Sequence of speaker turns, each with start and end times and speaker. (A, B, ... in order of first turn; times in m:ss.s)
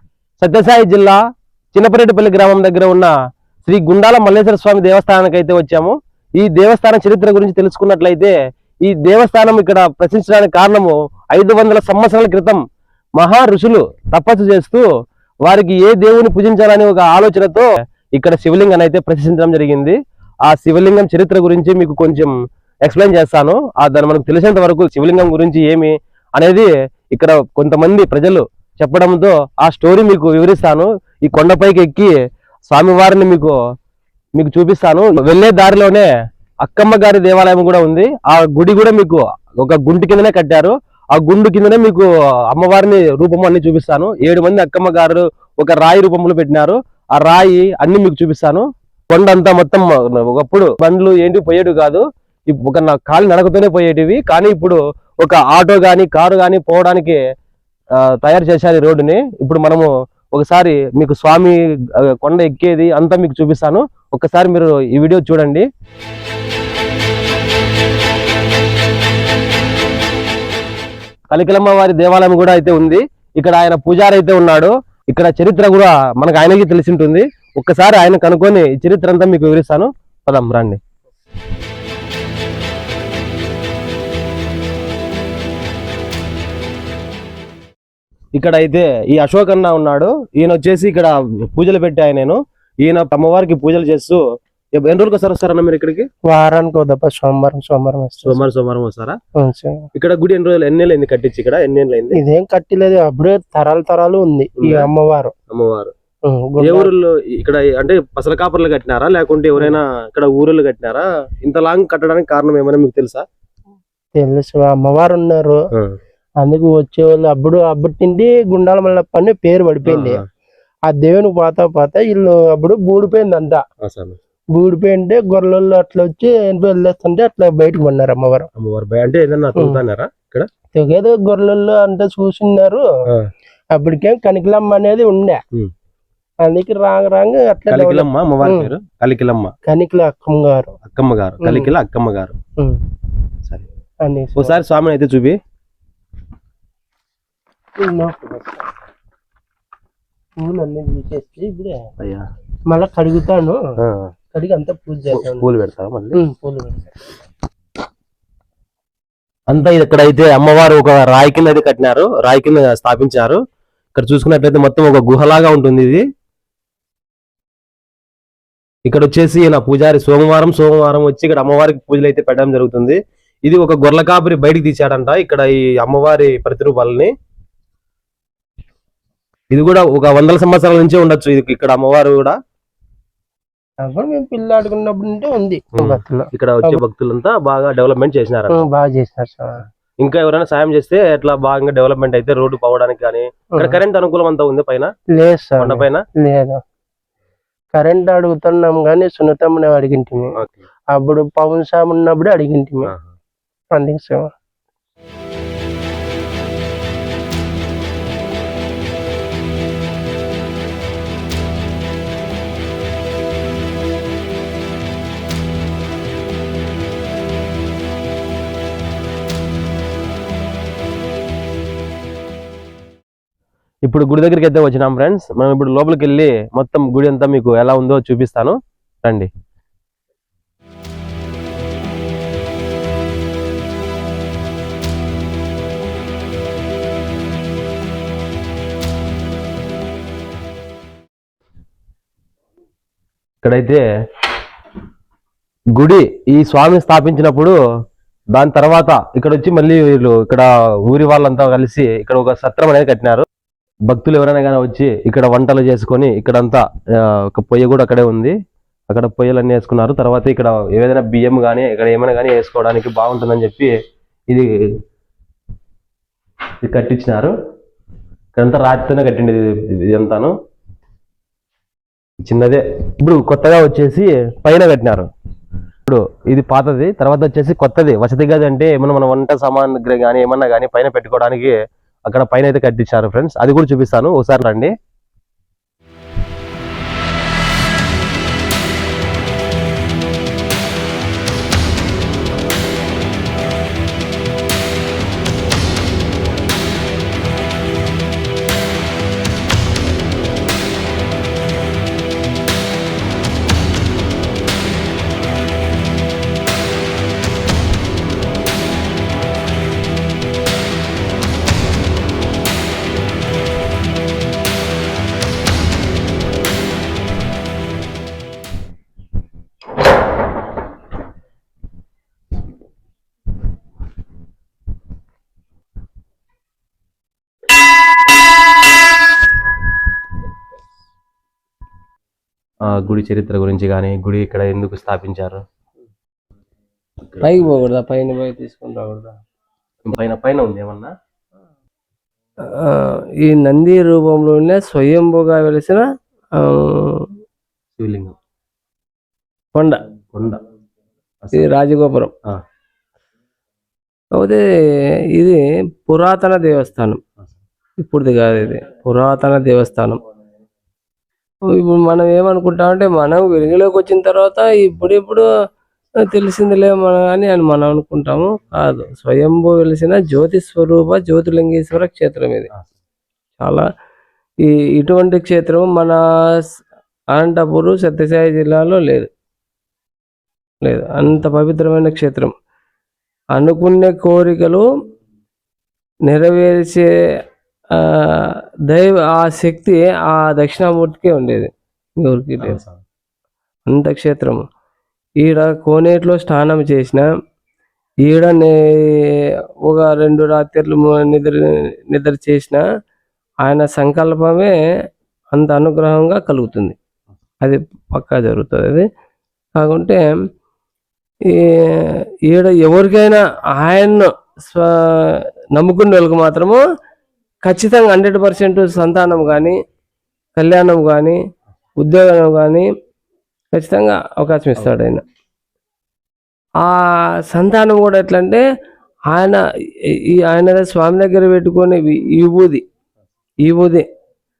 0:00.4-0:01.2 A
0:01.7-0:03.1 A
0:03.6-0:12.6 A
0:13.2-0:14.9 A
0:15.4-0:32.1 A
0:32.7-0:33.6 A
0:34.4-0:36.1 A
0:36.6-0:57.2 A
0:58.0-1:05.7 A
1:11.3-1:20.8 A
1:28.4-1:34.2 A
1:34.8-1:36.1 A
1:36.3-1:38.5 B
1:38.2-1:39.2 A
1:39.4-1:39.9 B
1:40.0-1:42.2 A
1:42.1-1:45.4 B
1:44.6-1:44.9 A
1:45.5-1:45.9 A
1:46.3-1:46.9 B
1:46.6-1:53.2 A
1:54.2-1:55.6 B
1:56.4-2:00.2 B
1:59.9-2:00.2 A
2:00.9-2:03.6 B
2:03.8-2:04.2 A
2:04.5-2:08.5 B
2:08.6-2:10.5 A
2:09.6-2:09.8 B
2:10.7-2:12.8 B
2:13.7-2:15.4 B
2:16.4-2:18.7 B
2:17.7-2:19.5 A
2:19.7-2:20.8 B
2:20.9-2:22.4 A
2:21.4-2:21.7 B
2:24.0-2:24.6 B
2:24.4-2:25.4 A
2:27.8-2:28.7 B
2:30.4-2:31.9 B
2:32.0-2:32.2 A
2:32.7-2:33.6 B
2:33.8-2:34.1 A
2:34.3-2:35.5 B
2:35.1-2:36.2 A
2:36.2-2:36.9 B
2:39.5-2:43.4 A
2:44.0-2:46.0 A
2:48.9-2:57.1 A
2:59.5-3:02.4 A
3:03.8-3:06.8 B
3:05.8-3:08.6 A
3:08.5-3:09.6 B
3:10.0-3:14.9 A
3:13.5-3:13.8 B
3:15.2-3:16.6 B
3:15.6-3:16.0 A
3:17.7-3:20.4 B
3:20.4-3:20.6 A
3:20.9-3:22.9 B
3:23.7-3:24.3 B
3:43.8-3:49.3 A
4:03.4-4:03.8 A
4:05.7-4:07.6 A
4:08.3-4:13.3 A
4:13.9-4:18.3 A
4:18.9-4:23.7 A
4:26.6-4:27.3 A
4:28.4-4:30.3 A
4:32.2-4:35.1 A
4:35.9-4:41.5 A
4:42.1-4:44.7 A
5:32.6-5:35.4 A
5:37.2-5:39.1 C
5:39.8-5:40.9 A
5:42.6-5:47.1 C
5:47.8-5:48.2 A
5:49.5-5:49.8 C
5:50.1-5:50.4 A
5:51.2-5:51.5 A
5:51.3-5:52.1 C
5:54.2-5:57.0 C
5:57.8-6:00.0 C
6:01.4-6:05.3 C
6:06.0-6:12.5 C
6:13.4-6:13.7 C
6:14.4-6:16.5 C
6:17.1-6:19.1 C
6:20.6-6:22.3 C
6:23.3-6:24.6 C
6:26.1-6:26.9 C
6:27.7-6:32.6 C
6:32.4-6:32.8 A
6:33.7-6:34.4 C
6:35.2-6:37.1 C
6:38.0-6:42.6 C
6:43.4-6:44.6 C
6:45.3-6:46.8 C
6:47.4-6:48.9 C
6:49.6-6:50.1 C
6:51.3-6:56.6 C
6:57.4-6:59.6 C
7:00.4-7:01.2 C
7:01.8-7:02.7 C
7:03.5-7:05.0 C
7:06.6-7:08.4 C
7:09.1-7:12.6 C
7:13.4-7:13.8 C